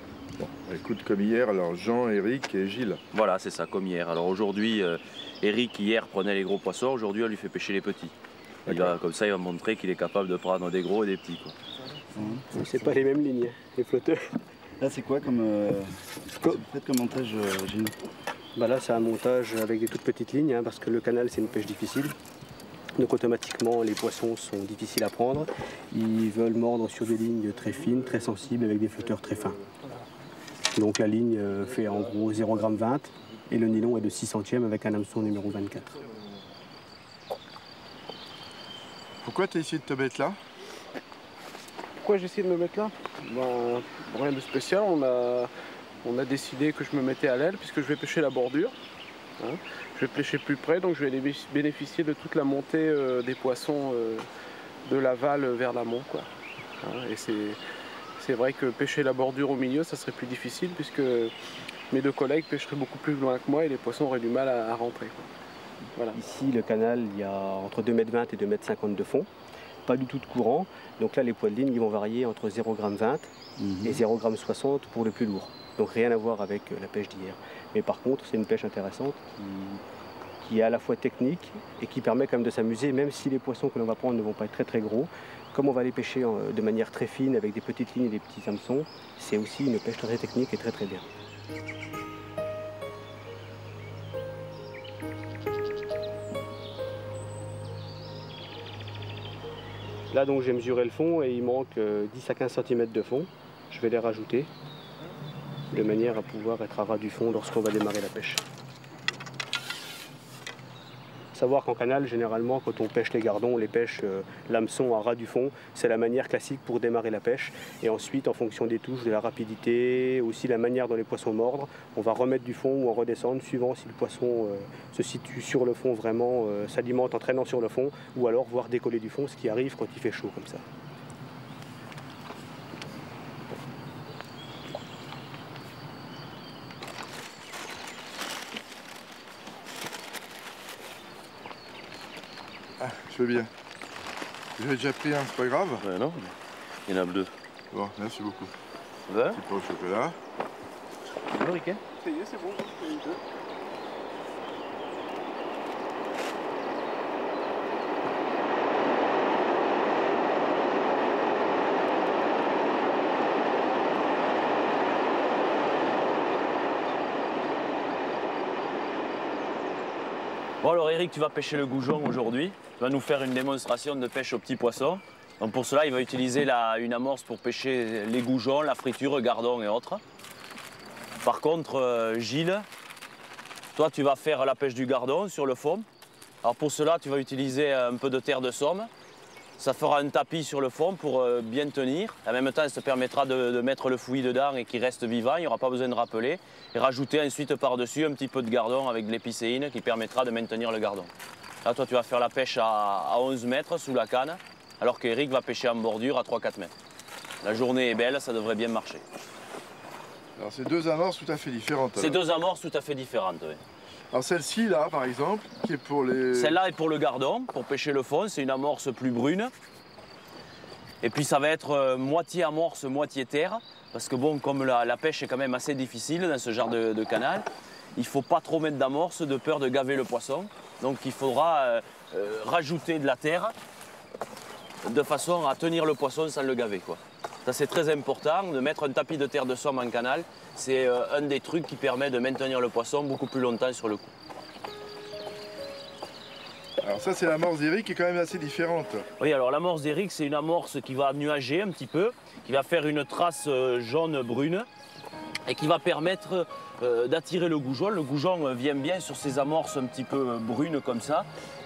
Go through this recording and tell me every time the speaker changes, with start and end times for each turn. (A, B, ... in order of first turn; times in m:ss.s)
0:00.4-0:03.0 A
0:03.1-0:08.1 B
0:08.7-0:11.6 B
0:08.7-0:09.0 A
0:12.1-0:13.0 C
0:12.5-0:14.2 D
0:14.8-0:18.0 C
0:18.6-0:22.2 D
0:23.0-0:29.6 D
0:30.7-0:36.1 D
0:39.2-0:40.4 A
0:42.0-0:45.5 E
0:46.0-0:48.8 E
0:49.4-0:54.3 E
0:54.9-0:56.3 E
0:56.8-0:57.6 E
0:58.2-1:01.3 E
1:01.9-1:05.3 E
1:05.9-1:06.2 E
1:06.2-1:09.3 D
1:09.9-1:19.2 D
1:13.6-1:14.0 C
1:19.4-1:19.8 C
1:20.4-1:31.1 D
1:40.1-1:44.5 D
1:45.7-1:48.4 D
1:51.3-2:10.6 D
2:22.8-2:23.5 A
2:24.6-2:25.8 A
2:25.8-2:26.4 B
2:26.9-2:27.3 B
2:27.7-2:28.5 A
2:29.1-2:29.4 B
2:29.3-2:30.2 A
2:31.3-2:31.8 B
2:32.0-2:32.9 E
2:50.6-3:00.0 B
3:01.2-3:02.7 B
3:03.8-3:05.9 B
3:06.4-3:08.9 B
3:09.6-3:21.1 B
3:21.6-3:26.7 B
3:27.4-3:29.0 B
3:30.4-3:32.2 A
3:32.0-3:33.6 B
3:34.1-3:36.6 A
3:36.3-3:39.5 B
3:41.0-3:53.6 B
3:54.8-4:04.1 B
4:06.8-4:09.1 A
4:09.2-4:14.7 B
4:15.5-4:21.3 B